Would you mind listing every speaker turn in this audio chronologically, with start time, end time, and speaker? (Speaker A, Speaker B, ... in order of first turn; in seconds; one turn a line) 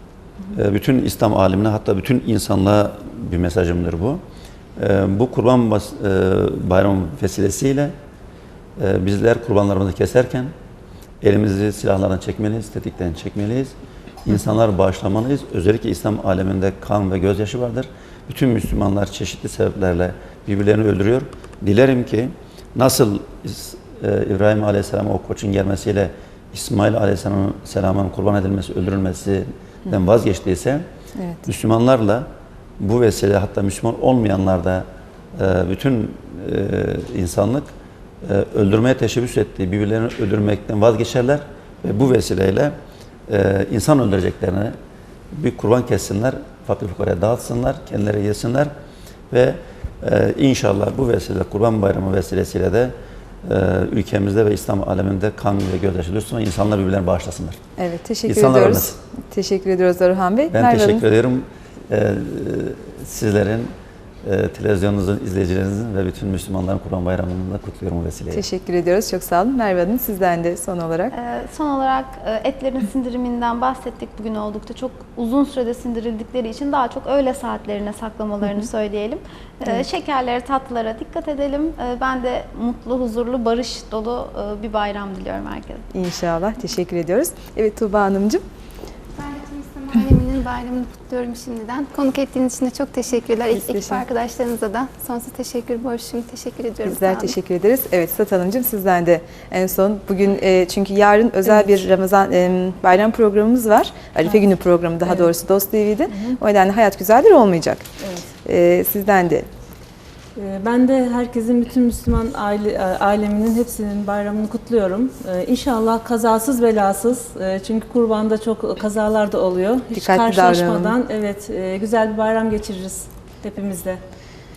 Speaker A: 0.5-4.2
Speaker A: 4.8-7.9
Speaker A: 8.8-10.5
Speaker A: 11.2-13.7
Speaker A: 14.2-30.9
Speaker B: 31.2-31.4
Speaker A: 31.5-32.3
Speaker A: 32.8-42.8
Speaker A: 43.3-44.8
Speaker A: 45.3-48.7
Speaker A: 49.3-52.9
Speaker A: 53.5-57.6
Speaker B: 57.8-61.0
Speaker A: 58.3-59.0
Speaker A: 60.5-68.4
Speaker B: 68.3-71.1
Speaker C: 71.1-85.8
Speaker B: 85.9-88.4
Speaker D: 89.2-97.4
Speaker B: 93.5-94.0
Speaker B: 96.8-107.8
Speaker E: 101.5-101.8
Speaker E: 105.1-105.3
Speaker E: 106.1-106.4
Speaker E: 108.0-108.3
Speaker B: 108.4-109.5
Speaker E: 110.4-124.0
Speaker B: 120.0-121.0